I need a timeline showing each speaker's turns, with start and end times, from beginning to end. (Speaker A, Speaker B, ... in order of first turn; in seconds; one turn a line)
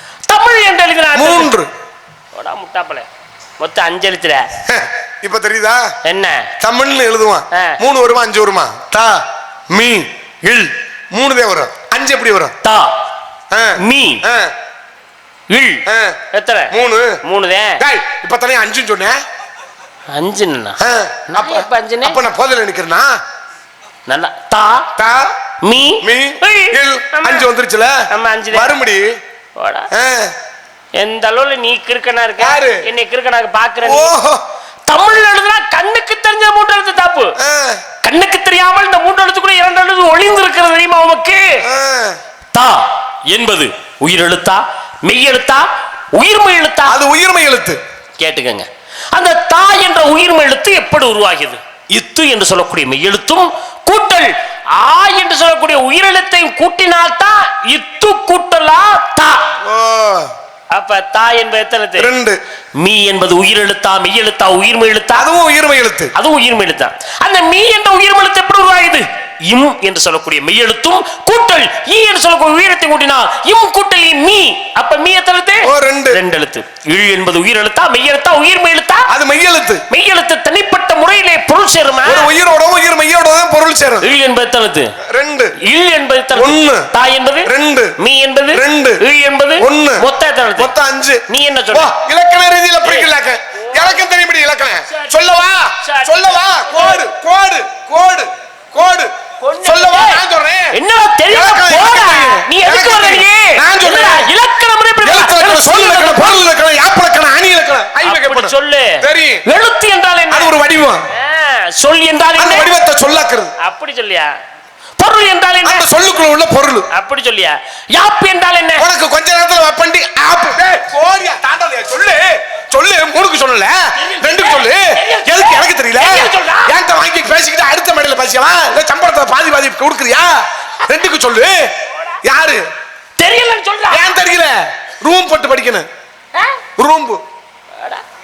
Speaker A: 0.3-1.5
Speaker B: 1.1-1.7
Speaker A: 2.3-3.1
Speaker A: 3.6-4.4
Speaker B: 4.7-5.9
Speaker A: 6.0-6.5
Speaker B: 6.6-12.5
Speaker A: 7.5-7.8
Speaker A: 12.6-12.9
Speaker B: 13.5-14.5
Speaker A: 13.8-14.2
Speaker A: 15.5-16.7
Speaker B: 15.8-16.2
Speaker B: 16.7-17.2
Speaker A: 17.2-17.8
Speaker B: 17.8-19.2
Speaker A: 20.1-20.8
Speaker B: 20.8-23.1
Speaker A: 21.3-22.2
Speaker A: 24.1-24.9
Speaker B: 24.9-25.3
Speaker A: 25.6-27.4
Speaker B: 26.0-29.2
Speaker A: 28.1-28.7
Speaker A: 29.6-29.9
Speaker B: 29.9-30.3
Speaker A: 30.9-34.1
Speaker B: 32.4-32.9
Speaker B: 33.8-34.4
Speaker A: 34.9-37.4
Speaker B: 37.4-37.8
Speaker A: 38.0-41.6
Speaker B: 41.6-42.2
Speaker A: 42.5-47.0
Speaker B: 46.9-47.8
Speaker A: 48.2-59.4
Speaker B: 59.6-60.3
Speaker A: 60.7-62.1
Speaker B: 62.0-62.4
Speaker A: 62.8-65.3
Speaker B: 65.1-66.1
Speaker A: 66.1-79.1
Speaker B: 75.6-76.2
Speaker B: 79.1-79.8
Speaker A: 79.9-82.3
Speaker B: 82.0-84.1
Speaker A: 84.0-84.9
Speaker B: 85.1-85.5
Speaker A: 85.6-90.7
Speaker B: 86.3-86.9
Speaker B: 87.5-87.9
Speaker B: 88.5-89.0
Speaker B: 89.6-90.0
Speaker B: 90.6-100.7
Speaker A: 91.3-91.9
Speaker A: 92.8-93.1
Speaker A: 93.6-94.0
Speaker A: 94.9-95.2
Speaker A: 95.8-97.0
Speaker A: 99.4-106.5
Speaker B: 101.3-104.3
Speaker B: 105.0-109.4
Speaker A: 108.0-110.5
Speaker B: 110.3-111.0
Speaker A: 111.1-112.7
Speaker B: 112.4-113.5
Speaker A: 113.6-114.3
Speaker A: 115.0-115.8
Speaker B: 115.6-116.9
Speaker A: 116.9-118.8
Speaker B: 118.8-131.7
Speaker A: 124.0-126.7
Speaker B: 132.2-132.6
Speaker A: 133.2-134.1
Speaker B: 133.9-135.9
Speaker B: 136.8-137.2